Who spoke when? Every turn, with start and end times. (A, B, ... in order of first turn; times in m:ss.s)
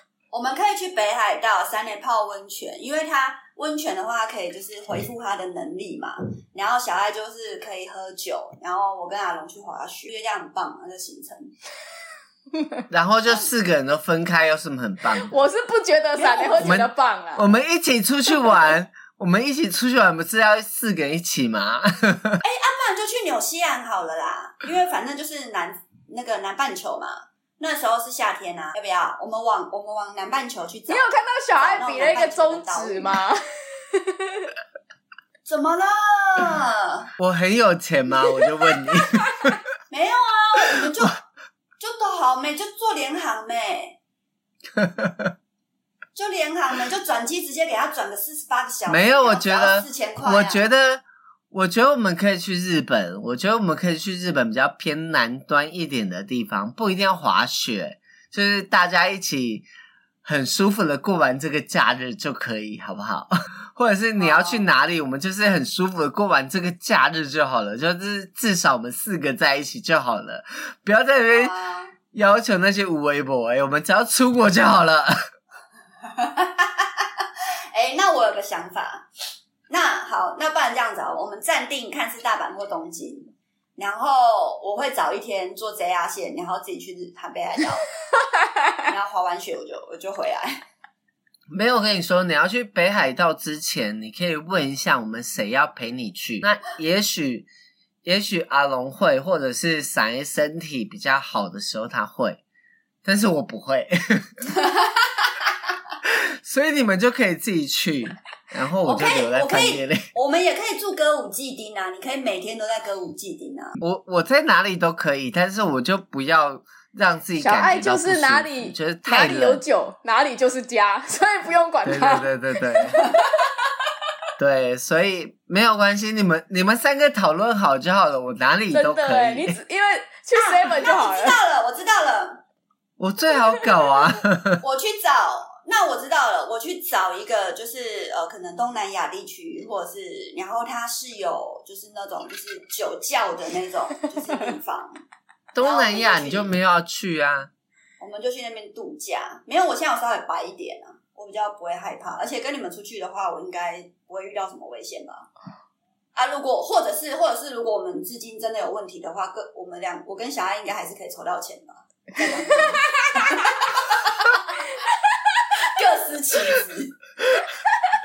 0:00.3-0:11.5 A
0:12.9-0:15.3 B
0:15.2-0:17.5 C
0:16.2-0:16.8 A
0:16.6-0:22.4 B
0:22.4-0:33.2 A
0:30.9-0:34.5 C
0:35.5-0:37.1 A
0:37.2-0:39.6 B
0:39.9-0:41.2 A
0:41.8-0:44.0 A
0:44.8-0:45.3 B
0:46.2-0:50.7 A
0:48.9-0:59.7 B
1:00.2-1:11.5 B
1:04.2-1:04.7 A
1:11.3-1:11.9 A
1:12.1-1:15.2 B
1:16.0-1:19.1 A
1:19.7-1:27.9 A
1:28.9-1:30.6 A
1:31.5-1:37.5 B
1:38.0-1:42.4 B
1:43.0-1:44.3 B
1:44.5-1:45.1 A
1:46.0-1:50.1 B
1:48.8-1:53.8 A
1:53.8-1:59.6 B
1:57.4-2:03.1 C
2:01.8-2:03.0 B
2:04.4-2:09.6 B
2:08.7-2:11.4 C
2:10.4-2:12.4 A
2:13.0-2:14.6 B
2:14.6-2:25.0 A
2:25.5-2:27.5 B
2:25.6-2:26.5 A
2:28.0-2:35.3 A
2:36.2-2:44.5 A
2:42.5-2:43.3 C
2:45.6-2:47.0 A